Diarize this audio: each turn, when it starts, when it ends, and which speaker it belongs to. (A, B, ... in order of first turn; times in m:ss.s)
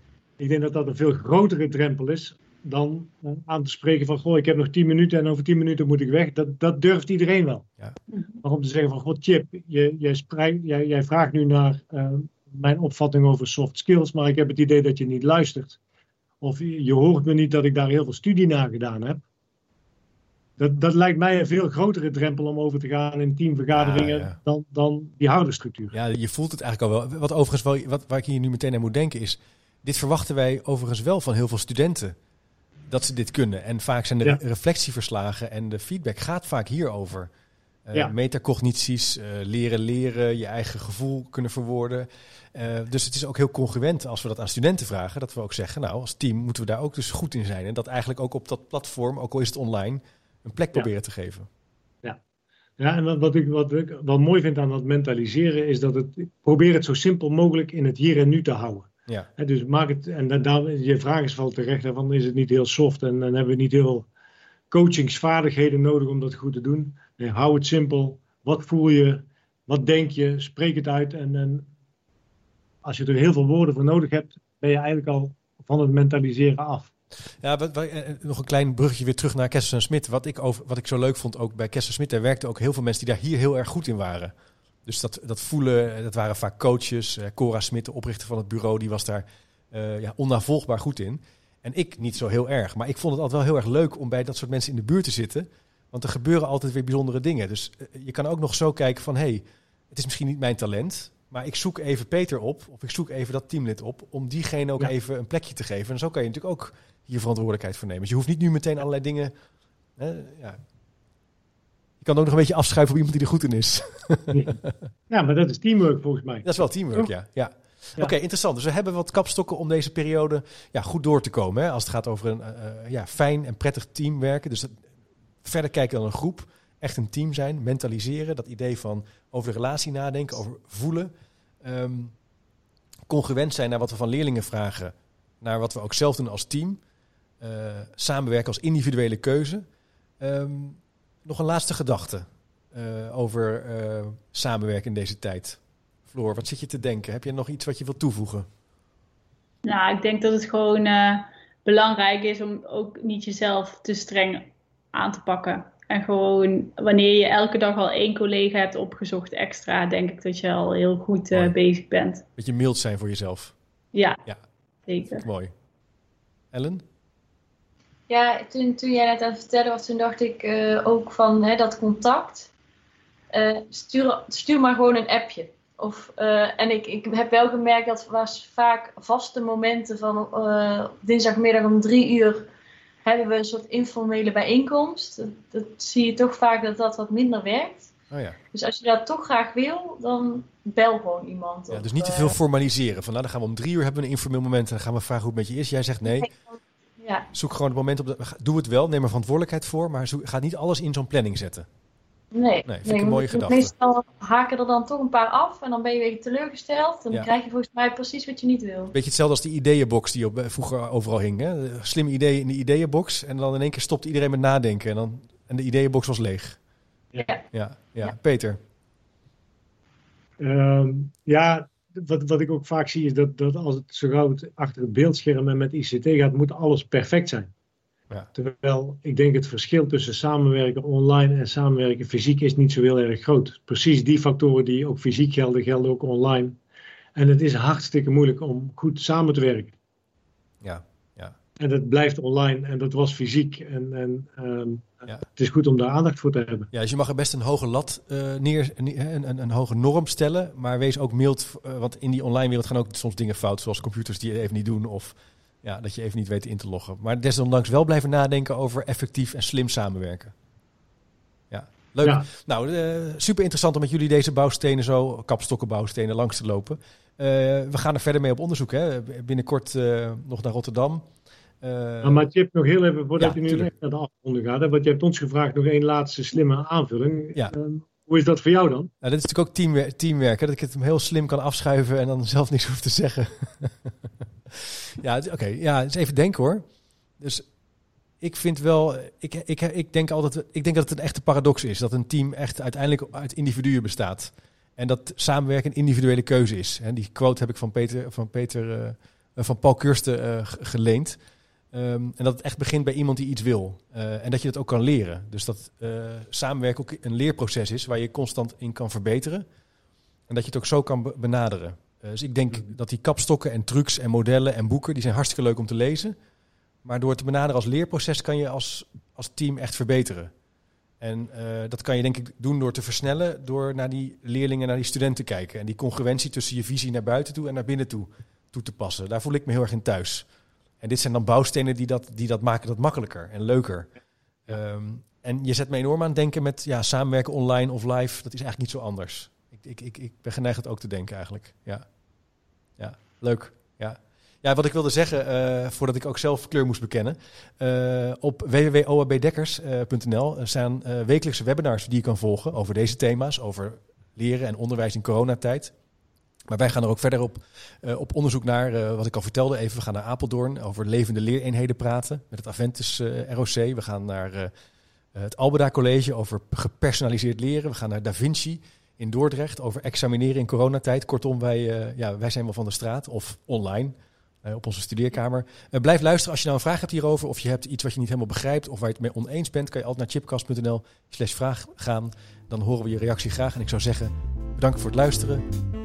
0:00.4-0:07.7 A
0:08.1-0:08.4 B
0:08.4-0:15.8 A
0:16.4-0:19.2 A
0:20.6-0:25.9 A
0:23.7-0:24.4 C
0:25.9-0:32.1 C
0:32.9-0:37.3 C
0:37.9-0:51.5 C
0:52.8-1:04.1 A
1:04.7-1:11.7 A
1:12.8-1:16.9 A
1:17.4-1:24.3 C
1:24.8-1:49.3 C
1:50.0-1:50.6 C
1:52.0-1:54.8 C
1:55.1-1:57.1 A
1:56.4-2:04.8 C
2:05.4-2:11.1 C
2:11.6-2:12.1 C
2:13.1-2:16.8 C
2:17.4-2:19.6 C
2:20.2-2:28.5 C
2:29.6-2:42.2 B
2:42.4-2:43.6 C
2:43.9-2:44.2 B
2:44.9-2:45.2 B
2:45.1-2:45.5 C
2:46.5-2:46.8 C
2:48.1-2:52.5 D
2:53.3-3:02.5 D
3:03.0-3:07.9 D
3:08.1-3:08.4 C
3:08.5-3:12.4 D
3:11.7-3:16.3 C
3:16.1-3:17.3 D
3:17.3-3:21.7 C
3:22.3-3:28.9 D
3:22.6-3:23.7 C
3:28.9-3:36.6 C
3:37.5-3:38.6 C
3:40.4-3:47.5 A
3:48.4-3:56.6 A
3:57.2-3:59.7 A
4:00.6-4:01.4 C
4:01.6-4:06.7 A
4:06.7-4:20.3 C
4:21.5-4:31.0 C
4:31.6-4:32.3 C
4:32.0-4:38.9 A
4:33.2-4:33.7 C
4:39.0-4:43.9 C
4:44.5-4:46.6 C
4:47.2-4:47.4 C
4:48.2-5:01.2 C
5:01.7-5:09.4 C
5:10.3-5:16.2 C
5:16.8-5:20.3 C
5:21.0-5:30.3 C
5:30.8-5:33.9 C
5:34.5-5:41.8 C
5:42.8-5:55.7 C
5:56.5-6:04.5 C
6:05.1-6:25.4 C